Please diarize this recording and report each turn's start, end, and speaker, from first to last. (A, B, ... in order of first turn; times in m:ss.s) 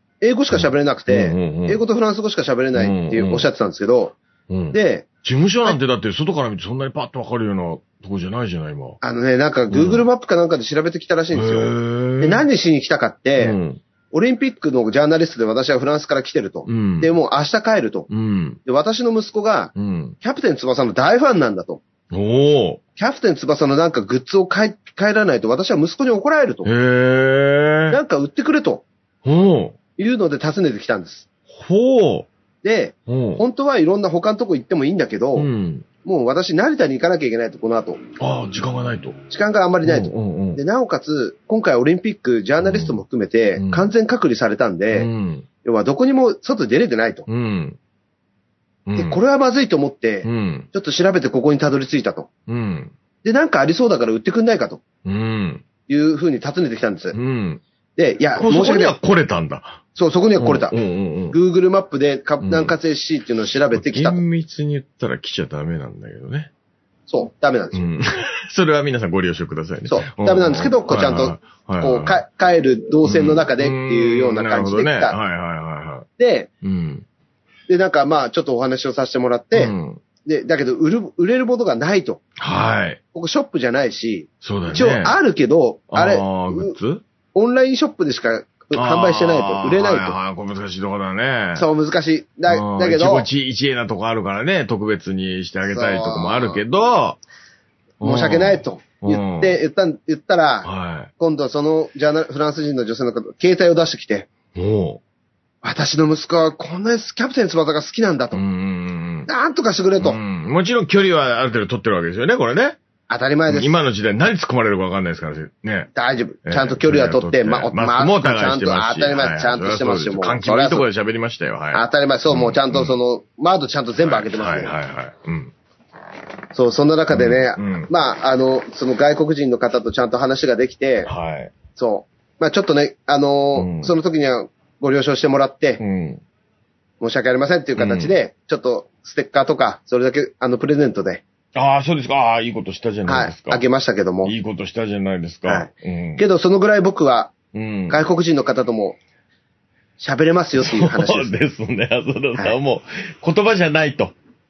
0:00.2-0:04.2 A
0:00.5-0:01.8 B
0:02.7-0:03.5 B
0:04.5-0:09.0 B
0:04.7-0:05.0 A
0:09.0-0:13.6 A
0:09.7-0:10.1 B
0:11.3-0:12.4 B
0:13.4-0:13.8 B
0:14.1-0:18.1 A
0:16.6-0:17.1 B
0:18.1-0:18.6 B
0:18.6-0:21.8 A
0:19.7-0:20.2 B
0:22.1-0:22.8 B
0:23.0-0:26.7 A
0:26.6-0:28.0 B
0:27.9-0:28.8 A
0:29.2-0:29.8 B
0:30.0-0:31.3 A
0:31.5-0:32.3 B
0:32.6-0:35.5 A
0:33.1-0:33.4 B
0:35.4-0:35.9 B
0:36.0-0:38.0 A
0:38.2-0:39.2 B
0:39.3-0:45.1 A
0:39.8-0:40.6 B
0:42.6-0:43.0 B
0:43.6-0:43.9 B
0:44.9-0:45.5 B
0:45.6-0:47.2 A
0:47.3-0:47.8 B
0:48.9-0:49.2 B
0:49.0-0:52.3 A
0:50.2-0:50.7 B
0:52.5-0:52.9 B
0:53.2-0:54.8 A
0:55.0-0:55.6 B
0:55.9-0:57.2 A
0:57.1-0:57.6 B
0:58.0-0:58.9 A
0:58.3-0:59.8 B
1:00.0-1:00.7 A
1:00.4-1:01.4 B
1:01.3-1:04.2 A
1:02.4-1:02.7 B
1:03.7-1:06.5 B
1:07.1-1:07.9 A
1:07.7-1:12.2 B
1:09.9-1:15.2 A
1:13.0-1:16.1 B
1:16.2-1:16.5 A
1:16.6-1:17.0 B
1:17.7-1:19.7 A
1:19.5-1:20.0 B
1:20.2-1:22.2 A
1:22.4-1:23.0 B
1:23.1-1:26.8 A
1:24.4-1:25.2 B
1:25.9-1:27.0 B
1:27.3-1:30.2 A
1:28.7-1:31.7 B
1:31.6-1:33.3 A
1:32.5-1:37.2 B
1:35.6-1:36.6 A
1:38.0-1:39.6 B
1:38.0-1:44.3 A
1:40.6-1:41.1 B
1:44.5-1:45.0 B
1:45.6-1:48.4 A
1:48.3-1:49.3 B
1:49.3-1:50.2 A
1:50.0-1:52.8 B
1:53.1-1:53.8 A
1:53.5-1:55.9 B
1:55.9-2:00.9 A
1:56.4-2:03.0 B
2:01.7-2:04.7 A
2:03.9-2:05.5 B
2:06.5-2:11.1 A
2:07.1-2:07.9 B
2:11.0-2:11.5 B
2:11.8-2:15.8 A
2:13.5-2:13.9 B
2:15.8-2:16.2 B
2:17.0-2:21.2 A
2:17.8-2:18.1 B
2:21.5-2:23.6 B
2:23.0-2:24.3 A
2:24.2-2:26.2 B
2:25.5-2:27.3 A
2:27.5-2:28.0 B
2:27.9-2:29.0 A
2:30.0-2:31.4 A
2:30.6-2:34.1 B